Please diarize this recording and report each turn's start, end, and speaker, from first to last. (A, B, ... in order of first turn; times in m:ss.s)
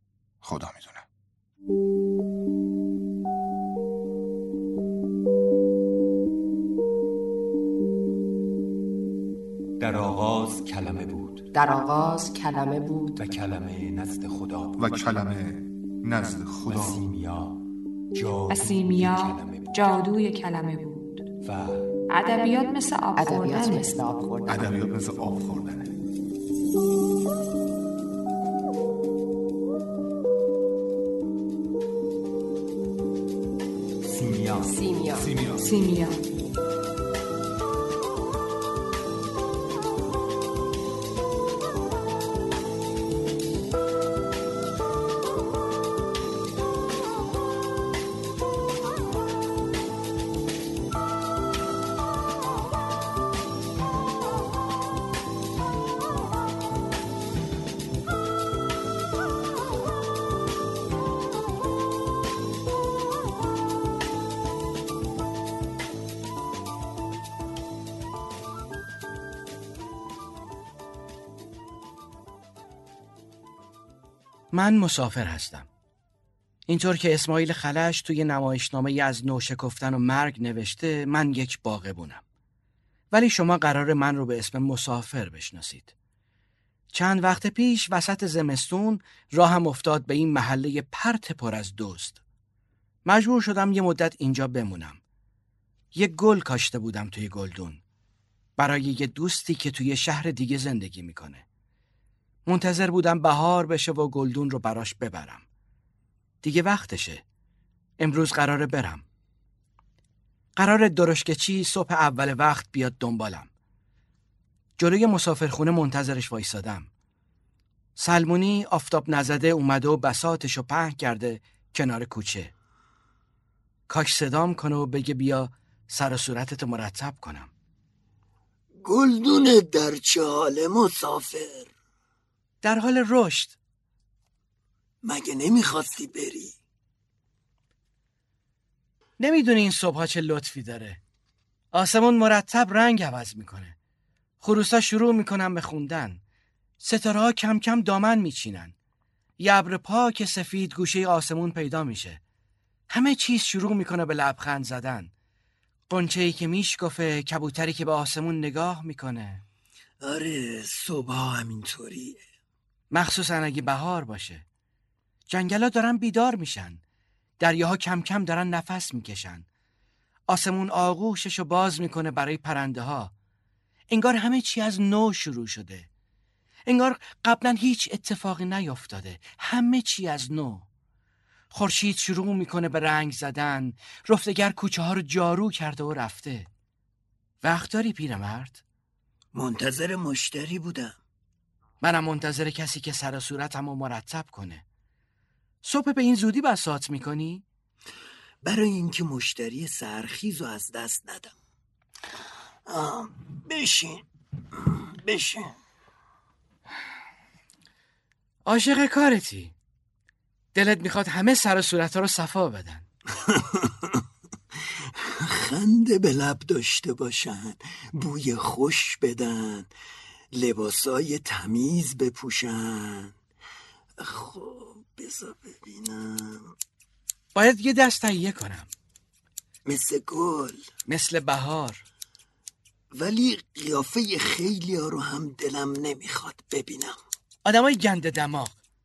0:00.4-0:01.0 A
0:09.8-0:11.5 B
0:11.5-0:13.2 C
0:13.2-0:14.8 B
0:14.8-0:17.0 A
0:16.7-0:17.6 B
0:18.1-0:19.8 B
0:18.5-0:21.3 D
0:21.4-0:21.9 B
0:22.1-0:24.0 D
0:23.2-0:24.6 C
0:24.5-0:26.0 A
0:34.0-0:35.7 B
0:34.6-0:35.3 C
0:35.6-0:36.2 D
1:14.5-1:15.7 E
1:16.7-1:22.2 E
1:23.1-1:25.9 E
1:26.9-1:32.2 E
1:33.0-1:35.0 E
1:35.9-1:37.8 E
1:38.6-1:41.4 E
1:42.5-1:45.4 E
1:46.4-1:47.2 E
1:48.0-1:49.0 E
1:50.6-1:53.5 E
1:54.8-1:56.9 E
1:58.0-2:02.5 E
2:03.9-2:07.5 E
2:08.8-2:11.7 F
2:12.6-2:13.6 E
2:15.0-2:16.5 F
2:19.2-2:21.0 E
2:21.7-2:23.8 E
2:24.4-2:26.2 E
2:26.8-2:28.7 E
2:29.4-2:32.2 E
2:32.9-2:35.1 E
2:35.9-2:39.4 E
2:40.0-2:42.2 F
2:42.9-2:44.4 E
2:45.3-2:46.8 E
2:47.4-2:49.4 E
2:50.3-2:53.1 E
2:53.9-2:55.9 E
2:56.7-3:00.7 E
3:01.5-3:06.5 E
3:07.4-3:08.6 E
3:09.3-3:11.0 F
3:11.8-3:14.6 E
3:15.6-3:17.4 E
3:18.4-3:21.3 F
3:22.7-3:25.6 F
3:28.5-3:29.5 E
3:30.6-3:32.8 E
3:33.2-3:34.0 F
3:35.0-3:39.7 F
3:40.3-3:43.2 F
3:44.0-3:46.6 F
3:47.4-3:48.7 E
3:49.7-3:50.6 F
3:50.9-3:51.8 E
3:52.9-3:57.0 F
3:57.4-3:58.6 E